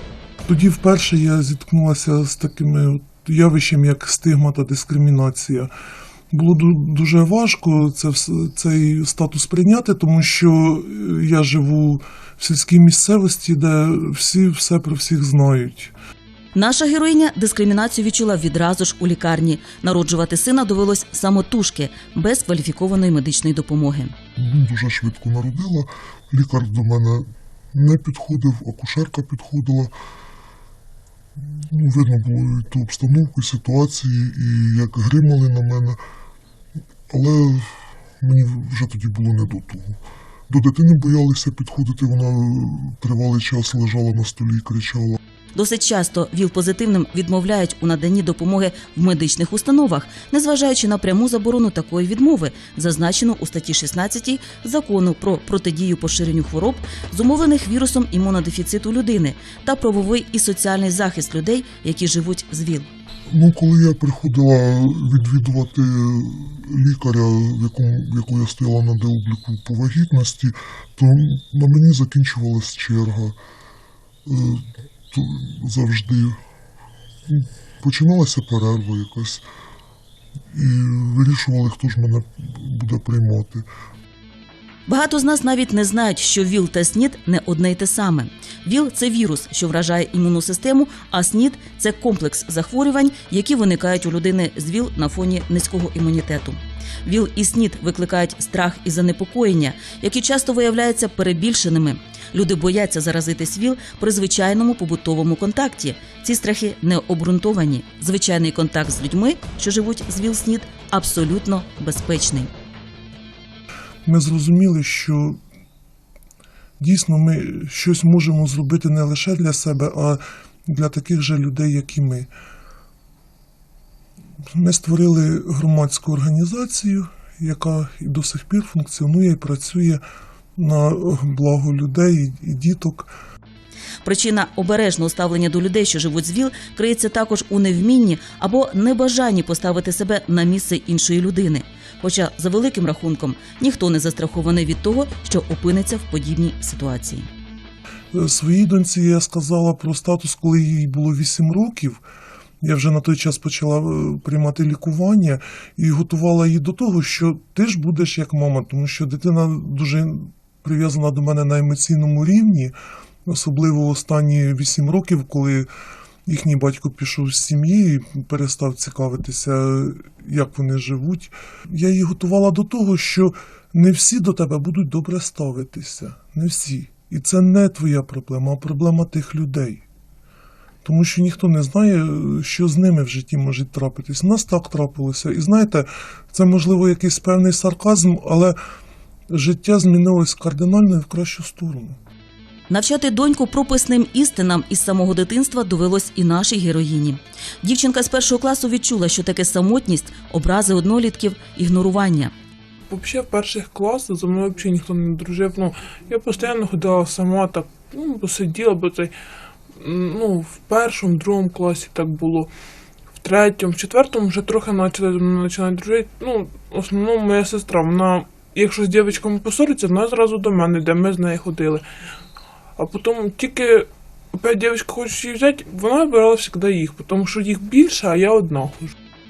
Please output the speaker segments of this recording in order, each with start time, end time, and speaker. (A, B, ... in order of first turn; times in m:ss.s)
0:00.4-0:05.7 A
0:06.3-0:15.9 A
0:16.5-0:24.1 B
0:24.4-0:29.9 C
0:31.4-0:36.0 C
0:37.1-0:45.2 C
0:45.5-1:02.9 B
1:03.3-1:13.4 C
1:14.2-1:16.4 C
1:17.3-1:19.4 C
1:20.5-1:23.6 C
1:24.9-1:52.5 B
1:54.0-1:55.4 A
1:56.8-2:02.3 A
2:04.5-2:10.0 A
2:10.6-2:13.1 A
2:14.0-2:27.3 B
2:28.1-2:32.0 A
2:32.6-2:42.7 A
2:43.2-2:45.7 A
2:46.2-2:59.8 A
3:00.8-3:08.6 A
3:09.3-3:12.0 A
3:12.7-3:22.3 B
3:22.9-3:29.1 D
3:29.8-3:32.5 D
3:33.2-3:41.8 D
3:42.8-3:48.9 D